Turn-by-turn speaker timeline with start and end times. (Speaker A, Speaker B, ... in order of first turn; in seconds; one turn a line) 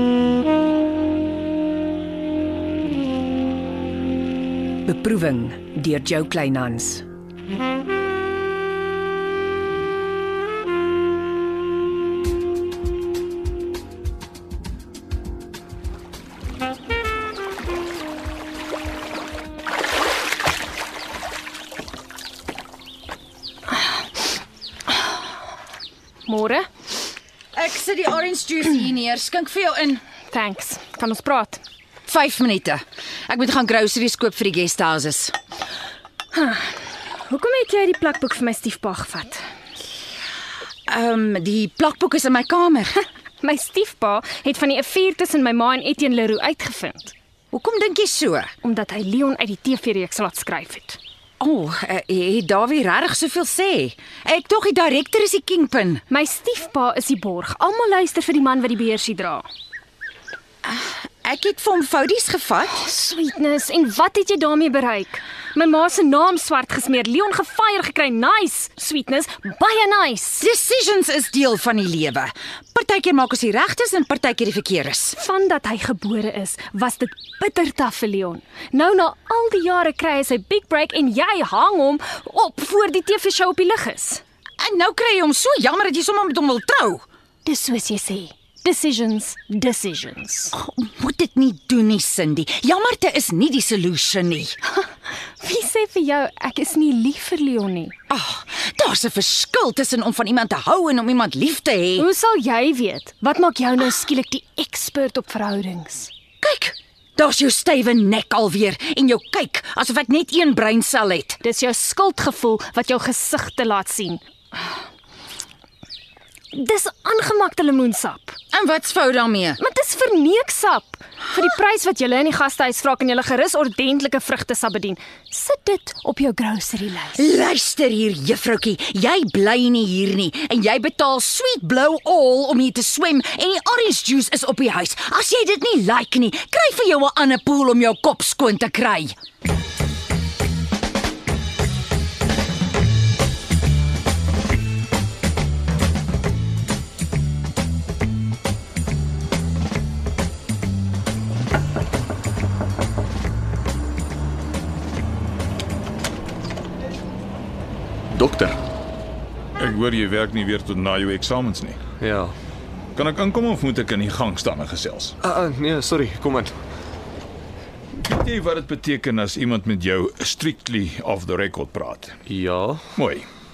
Speaker A: 4.9-7.0
Speaker B: 26.3-26.7
Speaker C: 27.6-30.0
Speaker B: 30.3-31.6
Speaker C: 32.1-35.3
Speaker B: 36.3-39.4
Speaker C: 40.9-43.0
Speaker B: 43.4-47.1
Speaker C: 47.5-48.5
Speaker B: 48.6-51.0
Speaker C: 51.4-56.0
Speaker B: 56.1-59.5
Speaker C: 60.6-62.8
Speaker B: 62.8-70.5
Speaker C: 70.4-75.2
Speaker B: 75.2-84.2
Speaker C: 84.6-87.0
Speaker B: 87.5-90.5
Speaker C: 90.5-94.6
Speaker B: 95.4-97.9
Speaker C: 98.1-102.1
Speaker B: 102.0-106.1
Speaker C: 106.4-111.4
Speaker B: 111.4-114.2
Speaker B: 116.5-118.4
Speaker C: 118.5-119.6
Speaker B: 119.6-127.2
Speaker C: 127.2-139.1
Speaker D: 158.1-158.6
Speaker E: 159.6-161.8
Speaker D: 162.0-162.3
Speaker E: 163.0-165.2
Speaker D: 165.2-166.6
Speaker E: 167.9-172.2
Speaker D: 172.3-172.8
Speaker E: 173.0-173.3